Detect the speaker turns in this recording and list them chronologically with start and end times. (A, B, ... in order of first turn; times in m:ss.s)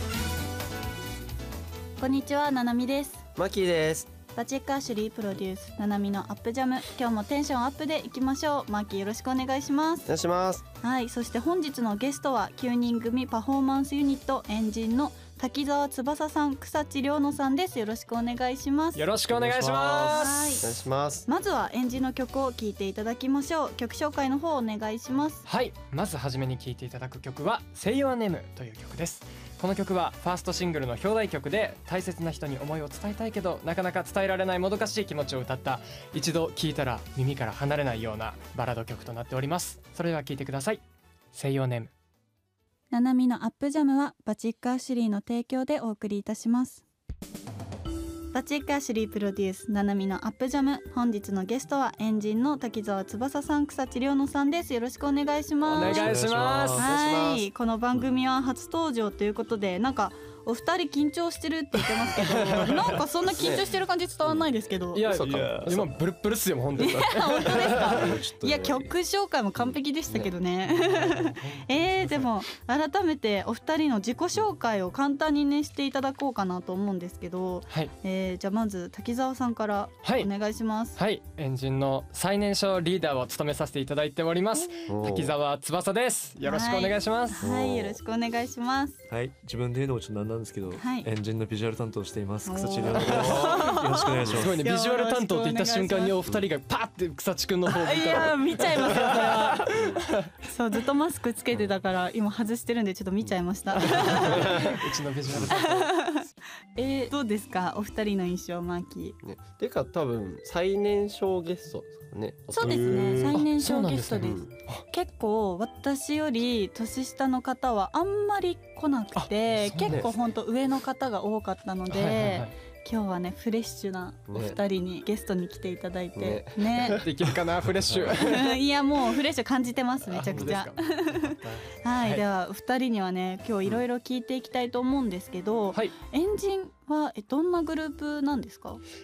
0:02.0-0:03.2 A
0:03.4-0:04.1 B
0:04.3-0:10.1 A
0:10.0-0:10.6 B
0:10.8-0:19.0 A
0:18.9-0:20.6 C
0:19.3-0:21.3 B
0:20.1-0:20.7 A
0:21.2-0:25.4 A
0:25.4-0:40.8 C
0:41.3-0:41.9 C
0:42.9-0:46.8 A
0:48.3-0:56.2 A
0:55.6-0:56.8 C
0:55.8-0:56.9 D
0:56.6-0:58.0 B
0:56.8-1:05.1 A
1:02.1-1:03.0 C
1:03.3-1:04.4 B
1:04.9-1:07.9 C
1:05.0-1:06.0 B
1:05.2-1:05.7 D
1:06.8-1:21.0 A
1:07.4-1:08.0 B
1:07.8-1:08.9 D
1:09.6-1:10.3 B
1:10.6-1:12.3 C
1:20.0-1:20.3 C
1:21.0-1:27.4 C
1:24.9-1:25.3 B
1:26.4-1:29.0 A
1:27.4-1:28.0 B
1:29.1-1:34.7 D
1:30.8-1:31.1 A
1:32.4-1:36.2 A
1:32.9-1:40.3 C
1:33.0-1:33.6 B
1:37.6-1:39.8 A
1:39.7-1:40.0 B
1:40.4-1:44.8 A
1:43.2-1:45.5 B
1:43.8-1:46.0 C
1:45.5-1:49.2 A
1:49.2-1:53.3 B
1:52.5-2:07.0 A
1:52.6-1:53.4 D
1:53.3-1:54.8 C
1:54.2-1:54.5 B
1:59.2-2:00.1 C
1:59.8-2:00.1 B
2:01.9-2:02.5 C
2:04.3-2:04.6 B
2:06.2-2:07.1 B
2:06.7-2:08.6 C
2:07.8-2:08.2 B
2:08.1-2:18.8 A
2:10.0-2:12.2 C
2:10.3-2:10.6 B